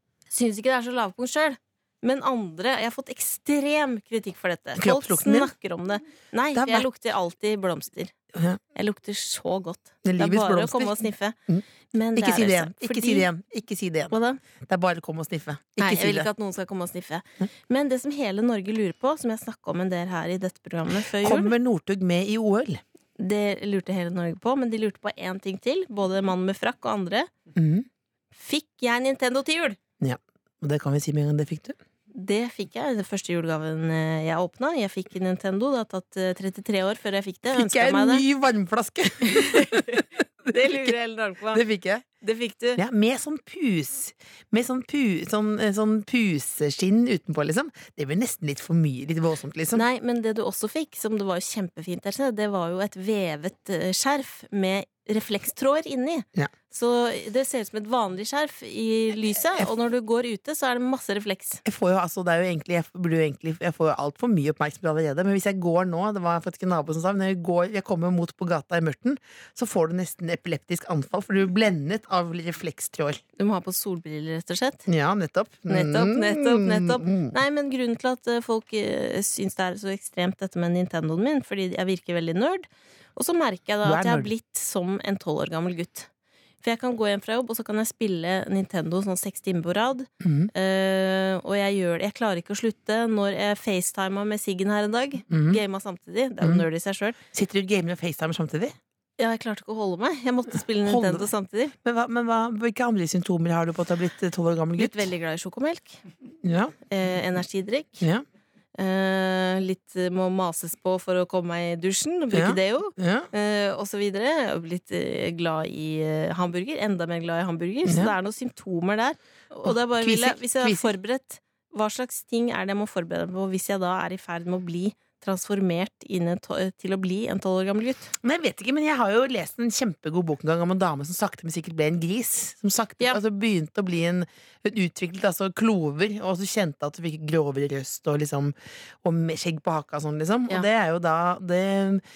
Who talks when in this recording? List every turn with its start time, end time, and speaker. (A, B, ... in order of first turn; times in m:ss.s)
0:00.3-0:08.1 A
0:04.8-0:05.5 B
0:06.5-0:06.9 B
0:08.3-0:08.6 B
0:08.7-0:11.4 A
0:10.0-0:14.1 B
0:11.9-0:13.3 A
0:14.1-0:14.4 A
0:14.6-0:16.3 B
0:15.8-0:21.5 A
0:21.1-0:22.8 B
0:23.2-0:27.3 A
0:27.6-0:27.9 B
0:28.4-0:29.8 A
0:30.0-0:31.8 B
0:32.1-0:38.2 A
0:37.5-0:40.9 B
0:39.2-0:41.6 A
0:41.5-0:42.0 B
0:42.2-0:42.8 A
0:42.8-0:49.8 B
0:49.7-1:01.6 A
1:01.6-1:13.2 B
1:13.4-1:14.8 A
1:14.9-1:17.3 B
1:15.7-1:26.1 A
1:23.8-1:24.3 B
1:26.6-1:37.2 A
1:30.2-1:30.5 B
1:35.3-1:35.6 B
1:37.3-1:38.7 B
1:39.2-1:41.7 A
1:40.8-1:41.3 B
1:41.8-1:45.0 B
1:44.8-1:46.0 A
1:46.4-1:46.7 B
1:46.9-1:48.0 A
1:48.8-2:08.1 A
1:52.3-1:53.3 B
1:57.8-1:58.1 B
1:59.6-2:00.9 B
2:08.2-2:22.0 B